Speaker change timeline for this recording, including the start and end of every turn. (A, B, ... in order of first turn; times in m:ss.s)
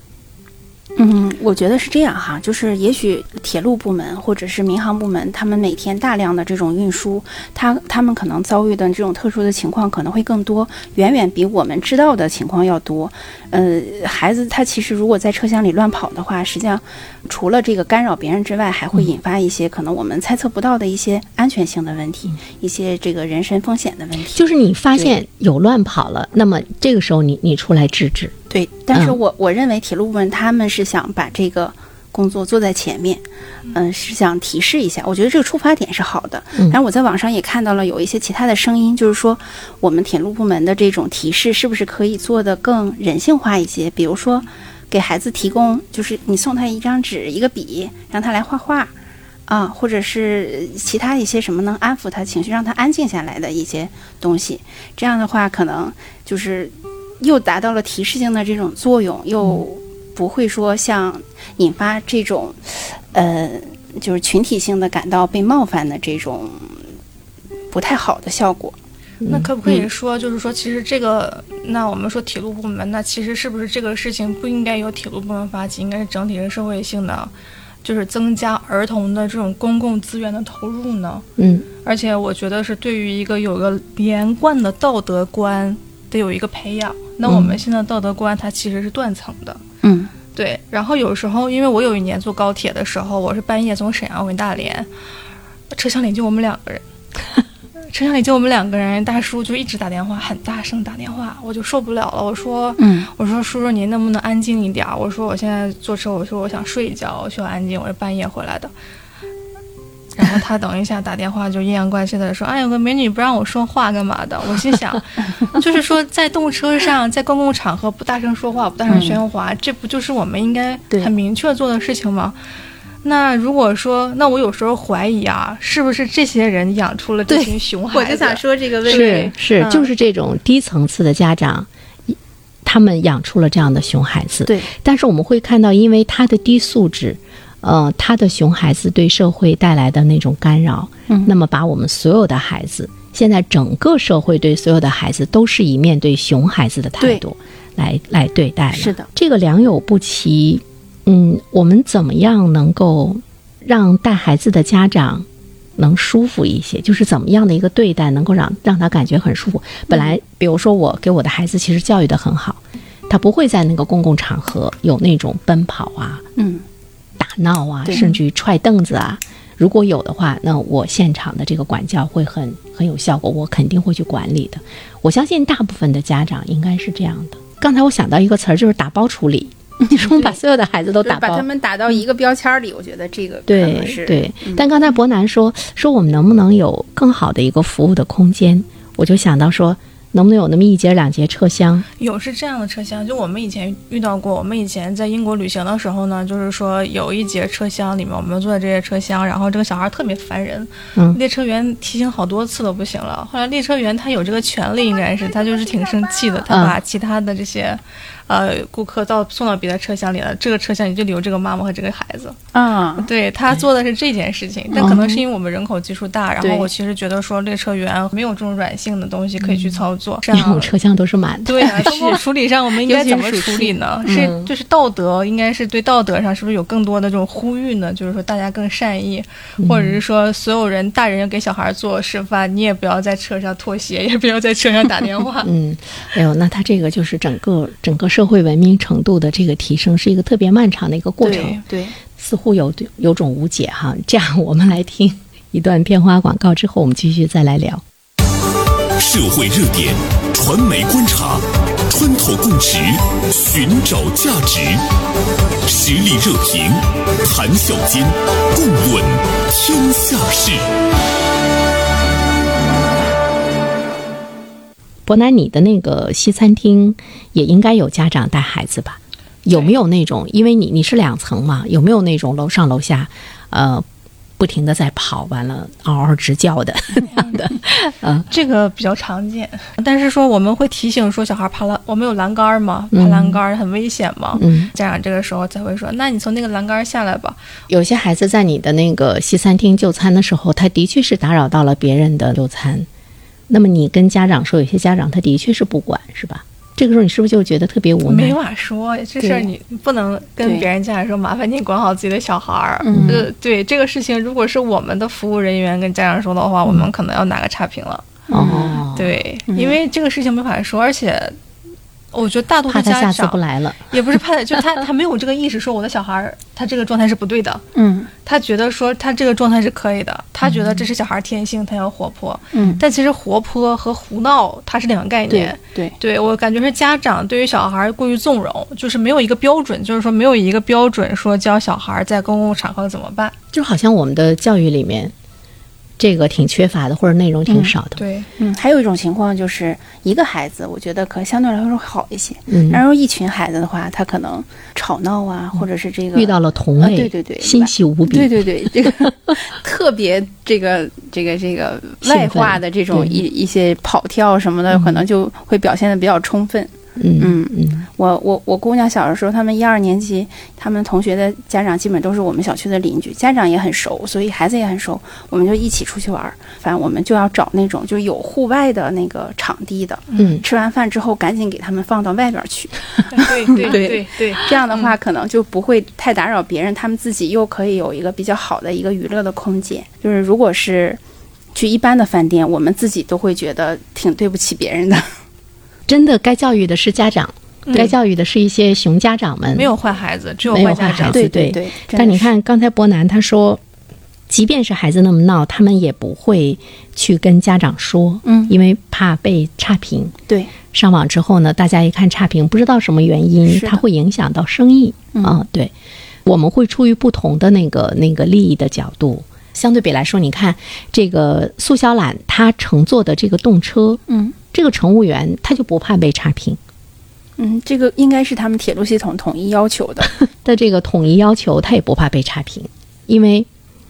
0:01.0-0:25.1 A
0:24.3-0:28.3 B
0:28.5-0:48.9 A
0:28.9-0:29.2 B
0:49.5-1:06.8 A
1:07.7-1:08.8 A
1:09.2-1:09.8 B
1:09.3-1:17.3 C
1:17.8-1:21.2 C
1:21.4-1:21.6 B
1:21.8-1:29.6 C
1:27.2-1:27.6 B
1:29.8-1:30.1 A
1:30.3-1:34.9 C
1:35.7-1:36.8 C
1:37.9-1:48.7 C
1:42.8-1:43.1 A
1:50.2-2:02.3 C
1:58.9-1:59.2 A
2:03.0-2:09.3 C
2:07.3-2:09.9 A
2:08.8-2:35.2 B
2:28.7-2:29.1 A
2:35.8-2:46.2 B
2:46.4-2:46.6 A
2:47.2-3:01.4 B
2:59.8-3:00.4 A
3:01.0-3:04.6 A
3:03.5-3:11.8 B
3:12.0-3:32.4 C
3:26.5-3:26.8 B
3:32.5-3:33.1 A
3:33.0-3:40.7 C
3:34.8-3:35.1 A
3:36.4-3:36.7 A
3:40.3-3:42.2 B
3:41.4-3:55.5 C
3:41.8-3:42.2 A
3:42.8-3:44.3 A
3:44.1-3:44.5 B
3:49.6-3:50.0 B
3:55.4-4:01.6 B
4:01.2-4:02.0 A
4:01.2-4:01.6 C
4:02.1-4:07.8 B
4:09.0-4:14.8 D
4:15.6-4:20.6 D
4:25.0-4:33.8 B
4:34.4-4:38.3 B
4:37.1-4:37.5 C
4:38.3-4:47.4 C
4:42.9-4:43.4 B
4:44.4-4:44.7 B
4:47.7-4:52.9 B
4:53.5-4:58.4 B
4:58.0-5:08.1 C
4:59.2-4:59.5 A
5:00.4-5:00.7 A
5:02.8-5:03.3 A
5:02.9-5:03.2 B
5:08.3-5:08.8 A
5:08.3-5:09.1 B
5:08.8-5:11.4 C
5:09.5-5:09.8 A
5:12.1-5:17.6 C
5:12.7-5:13.9 B
5:17.7-5:18.1 A
5:18.2-5:33.3 C
5:22.5-5:22.8 A
5:25.3-5:26.0 A
5:33.5-5:35.1 B
5:36.0-5:38.0 B
5:37.5-5:37.7 A
5:38.0-5:38.3 C
5:38.4-6:21.0 A
5:42.5-5:42.8 B
5:46.1-5:49.1 B
5:52.0-5:53.2 B
5:54.7-5:55.0 B
5:57.0-5:57.9 B
6:10.1-6:10.4 C
6:10.2-6:10.4 B
6:13.1-6:14.9 C
6:21.5-6:25.1 A
6:25.9-6:29.7 B
6:27.6-6:27.9 C
6:29.5-6:31.2 C
6:30.5-6:33.6 B
6:31.1-6:32.3 A
6:34.3-6:40.2 B
6:38.2-6:38.5 A
6:40.3-6:40.5 A
6:40.7-6:45.7 B
6:43.5-6:43.8 A
6:46.2-6:56.6 B
6:54.1-6:54.3 A
6:57.4-7:00.2 A
7:00.4-7:03.5 B